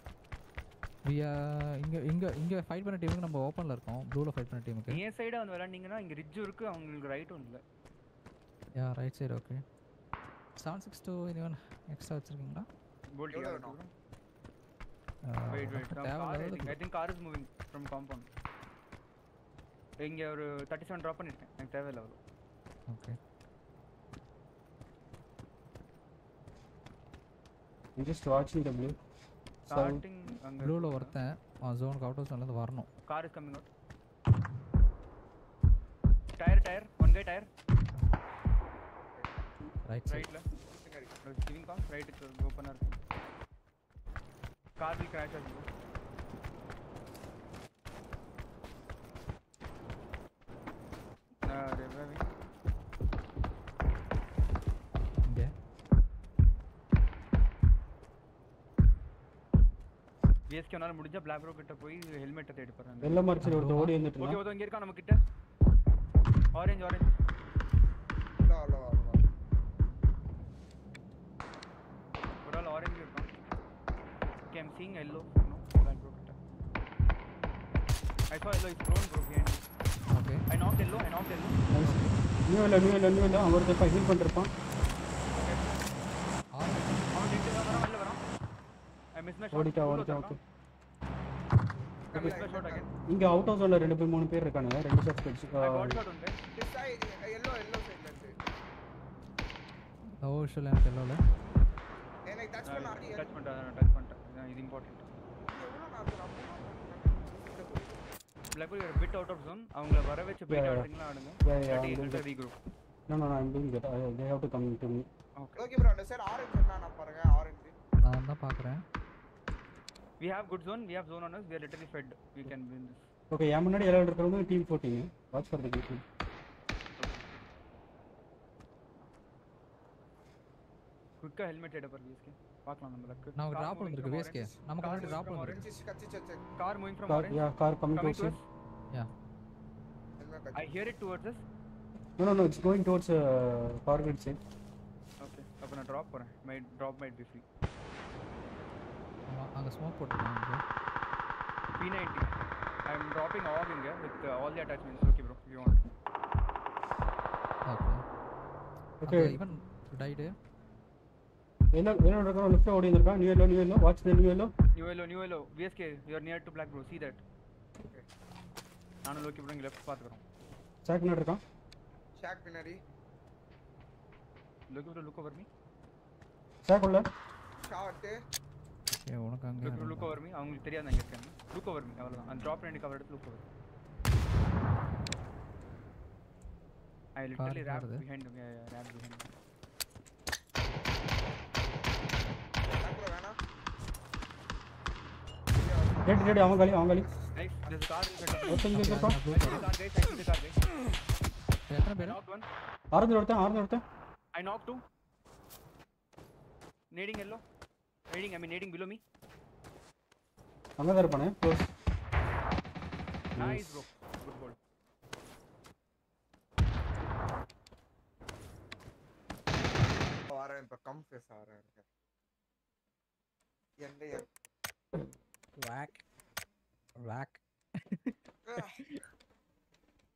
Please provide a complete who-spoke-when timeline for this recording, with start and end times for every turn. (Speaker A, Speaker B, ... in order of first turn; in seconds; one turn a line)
Speaker A: 1.1-5.0
Speaker B: 4.9-7.6
Speaker A: 8.8-9.6
Speaker A: 10.6-12.7
Speaker B: 13.1-13.9
Speaker C: 13.3-13.8
Speaker A: 15.2-16.8
Speaker B: 15.5-18.3
Speaker B: 20.0-22.2
Speaker A: 22.9-23.2
Speaker D: 28.0-29.0
Speaker D: 29.7-30.0
Speaker B: 29.7-31.2
Speaker A: 30.6-32.9
Speaker B: 33.0-33.7
Speaker B: 36.4-37.5
Speaker A: 39.8-40.3
Speaker B: 40.1-40.5
Speaker C: 40.6-41.1
Speaker B: 41.2-43.0
Speaker B: 44.8-45.7
Speaker B: 51.4-52.3
Speaker A: 55.2-55.5
Speaker B: 60.5-63.3
Speaker D: 63.0-64.4
Speaker A: 63.4-64.0
Speaker B: 64.2-65.2
Speaker B: 66.5-67.1
Speaker C: 68.4-69.2
Speaker B: 72.5-73.3
Speaker B: 74.5-76.4
Speaker B: 78.3-79.6
Speaker A: 80.1-80.4
Speaker B: 80.5-81.6
Speaker D: 81.7-84.5
Speaker A: 81.8-82.1
Speaker B: 85.3-85.8
Speaker A: 86.5-87.8
Speaker B: 87.1-88.2
Speaker B: 89.2-90.4
Speaker D: 89.5-90.4
Speaker C: 92.1-92.9
Speaker B: 92.1-92.9
Speaker D: 93.1-96.0
Speaker B: 95.6-96.4
Speaker C: 96.5-98.4
Speaker A: 100.2-101.2
Speaker C: 102.3-103.3
Speaker B: 102.7-105.1
Speaker C: 105.4-108.1
Speaker B: 108.5-112.5
Speaker D: 110.5-110.9
Speaker D: 111.4-112.2
Speaker D: 113.1-115.1
Speaker B: 115.4-115.7
Speaker C: 115.6-117.7
Speaker A: 118.0-118.8
Speaker B: 120.2-123.1
Speaker D: 123.3-126.0
Speaker B: 127.0-127.2
Speaker B: 131.2-135.6
Speaker A: 133.4-135.7
Speaker C: 134.9-136.4
Speaker B: 136.6-137.4
Speaker D: 137.1-138.4
Speaker B: 137.9-138.5
Speaker C: 140.2-140.7
Speaker B: 140.6-141.4
Speaker D: 142.2-144.4
Speaker B: 145.2-147.4
Speaker A: 149.3-150.6
Speaker B: 151.8-152.3
Speaker B: 152.9-155.8
Speaker A: 157.7-158.0
Speaker D: 159.0-159.4
Speaker A: 159.0-160.3
Speaker D: 161.7-164.5
Speaker B: 164.8-167.2
Speaker B: 169.1-170.2
Speaker D: 170.8-171.4
Speaker C: 172.2-172.8
Speaker B: 174.7-175.5
Speaker D: 176.7-177.1
Speaker C: 177.6-178.2
Speaker A: 178.9-180.2
Speaker B: 179.6-183.5
Speaker B: 187.2-189.3
Speaker A: 187.4-188.0
Speaker C: 192.7-193.4
Speaker C: 195.5-197.2
Speaker D: 196.1-197.1
Speaker B: 197.3-198.7
Speaker D: 198.5-199.2
Speaker A: 198.7-199.7
Speaker B: 199.2-200.6
Speaker A: 201.7-202.2
Speaker B: 202.0-202.5
Speaker D: 202.9-203.8
Speaker B: 204.3-204.8
Speaker B: 206.9-207.4
Speaker B: 208.1-209.0
Speaker D: 210.8-211.7
Speaker D: 213.4-213.8
Speaker B: 213.4-214.6
Speaker C: 220.3-221.8
Speaker C: 223.8-224.3
Speaker A: 225.6-226.0
Speaker A: 227.0-228.2